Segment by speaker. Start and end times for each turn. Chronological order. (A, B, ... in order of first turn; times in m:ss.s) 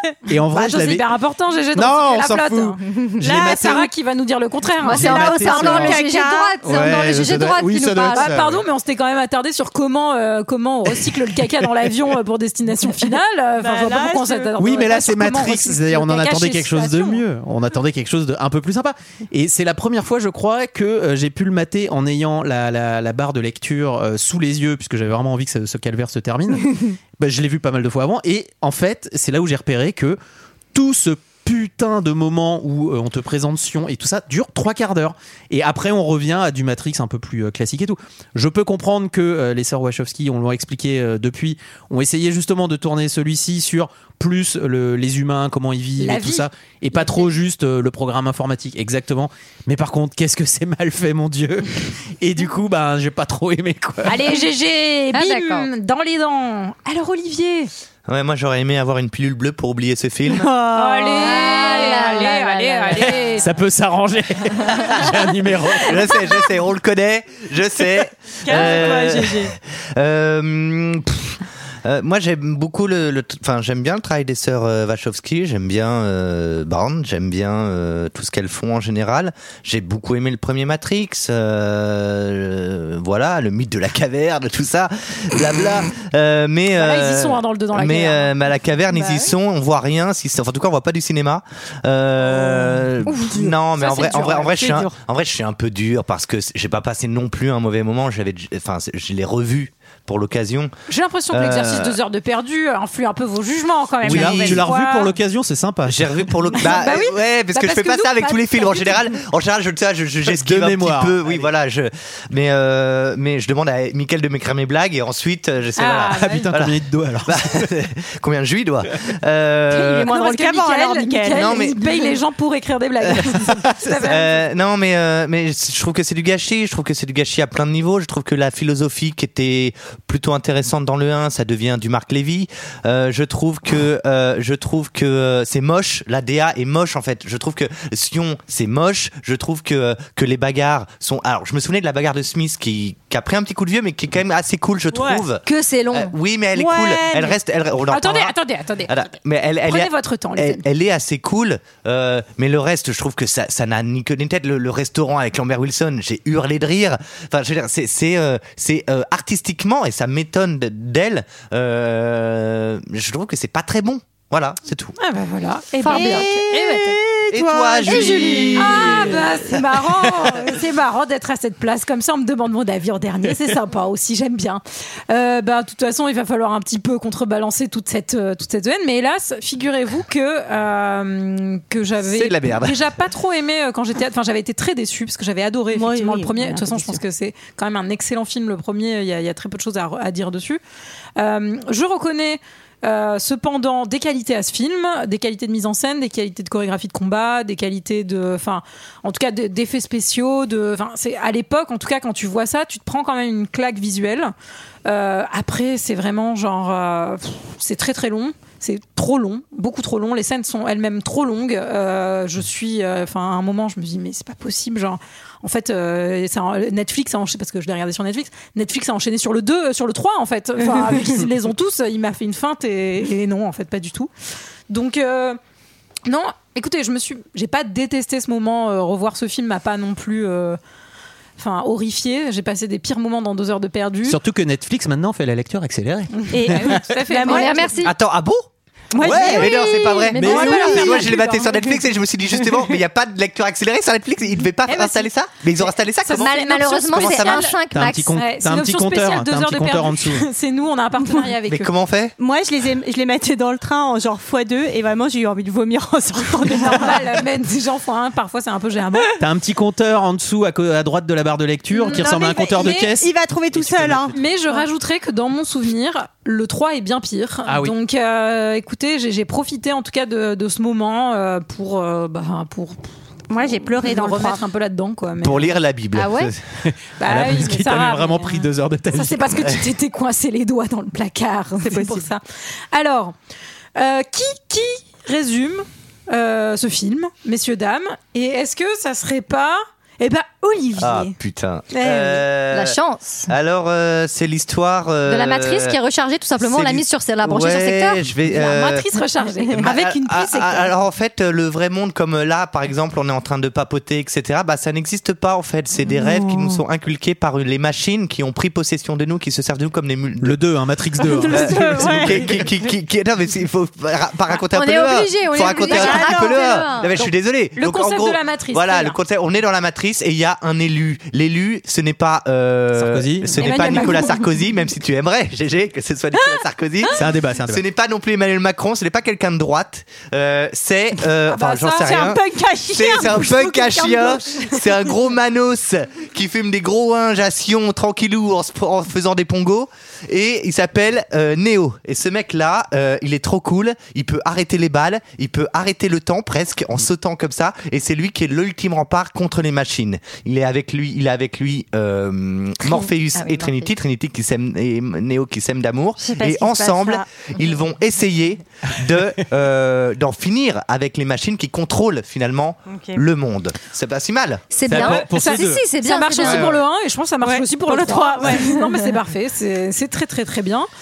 0:00.3-0:01.0 A
0:00.5-0:02.8 B
0:01.7-0:03.9 A
0:03.2-0:03.8 C
0:03.3-0:05.2 B
0:04.8-0:08.3 D
0:04.9-0:05.9 A
0:05.0-0:06.6 C
0:06.6-0:08.6 A
0:08.1-0:17.2 B
0:13.6-0:14.5 C
0:14.6-0:30.2 A
0:30.7-0:54.3 A
0:46.0-0:46.4 B
0:54.0-0:57.7 B
0:55.1-0:55.7 D
0:58.1-1:00.5 E
1:00.3-1:01.8 C
1:00.7-1:03.5 B
1:01.1-1:03.2 D
1:03.4-1:06.0 A
1:05.8-1:40.7 E
1:08.4-1:09.5 C
1:26.7-1:28.3 B
1:28.9-1:29.3 C
1:32.2-1:35.0 C
1:40.9-1:45.1 B
1:41.3-1:42.0 E
1:44.0-1:46.3 A
1:44.0-1:44.7 E
1:45.9-2:00.1 E
1:46.5-1:49.0 B
1:50.2-1:51.4 A
1:55.8-1:56.5 B
1:56.1-1:57.6 A
1:59.7-2:04.4 B
1:59.8-2:01.6 C
2:01.3-2:01.8 E
2:03.9-2:28.3 E
2:24.9-2:25.2 C
2:25.4-2:26.1 D
2:26.5-2:27.4 C
2:27.9-2:29.0 B
2:28.9-2:44.9 E
2:29.6-2:30.6 B
2:45.0-2:47.0 B
2:45.8-2:46.5 D
2:45.8-2:46.3 C
2:45.9-2:46.4 E
2:47.1-2:49.1 C
2:47.3-2:49.6 E
2:47.8-3:10.6 B
2:47.9-2:48.5 D
2:50.2-2:50.4 E
3:02.0-3:02.8 E
3:05.7-3:07.0 C
3:11.2-3:24.3 B
3:24.8-3:44.1 B
3:44.7-3:45.4 B
3:46.0-3:50.6 B
3:51.4-3:54.2 B
3:54.0-3:56.8 A
3:56.2-3:57.7 B
3:56.3-3:57.6 C
3:57.2-3:57.9 D
3:57.8-3:58.5 E
3:58.9-3:59.5 C
3:59.0-3:59.5 A
3:59.0-4:07.5 E
3:59.3-4:01.8 B
4:00.1-4:01.0 A
4:00.5-4:01.1 C
4:04.6-4:05.1 B
4:06.0-4:07.5 B
4:06.1-4:08.1 D
4:07.7-4:10.3 A
4:08.1-4:11.7 B
4:11.5-4:12.1 E
4:12.2-4:17.2 C
4:16.5-4:19.2 B
4:19.2-4:24.1 A
4:21.7-4:22.9 B
4:22.6-4:24.1 C
4:24.1-4:32.8 B
4:27.4-4:27.7 A
4:33.3-4:34.4 C
4:33.5-4:35.5 B
4:35.2-4:36.4 E
4:35.9-4:36.3 D
4:36.6-4:39.6 A
4:37.0-4:43.1 B
4:41.6-4:42.0 C
4:43.8-4:51.1 B
4:50.8-4:52.8 E
4:51.7-4:52.2 B
4:52.5-4:53.3 D
4:53.3-4:55.8 E
4:55.0-4:58.3 D
4:56.4-4:58.8 E
4:58.3-5:00.7 B
4:59.6-5:10.4 E
5:06.0-5:06.6 C
5:10.2-5:12.4 A
5:11.0-5:12.2 C
5:11.3-5:32.2 E
5:14.3-5:16.9 D
5:15.6-5:16.4 C
5:17.0-5:19.0 B
5:22.7-5:23.6 A
5:23.4-5:24.2 B
5:26.9-5:27.6 A
5:31.3-5:32.1 B
5:31.8-5:34.2 C
5:32.7-6:04.9 E
5:32.9-5:34.4 B
5:52.6-5:53.7 D
5:56.0-5:57.0 C
6:02.7-6:03.0 C
6:04.5-6:06.5 D
6:04.6-6:05.6 A
6:05.0-6:10.7 B
6:06.2-6:06.6 A
6:07.2-6:08.5 C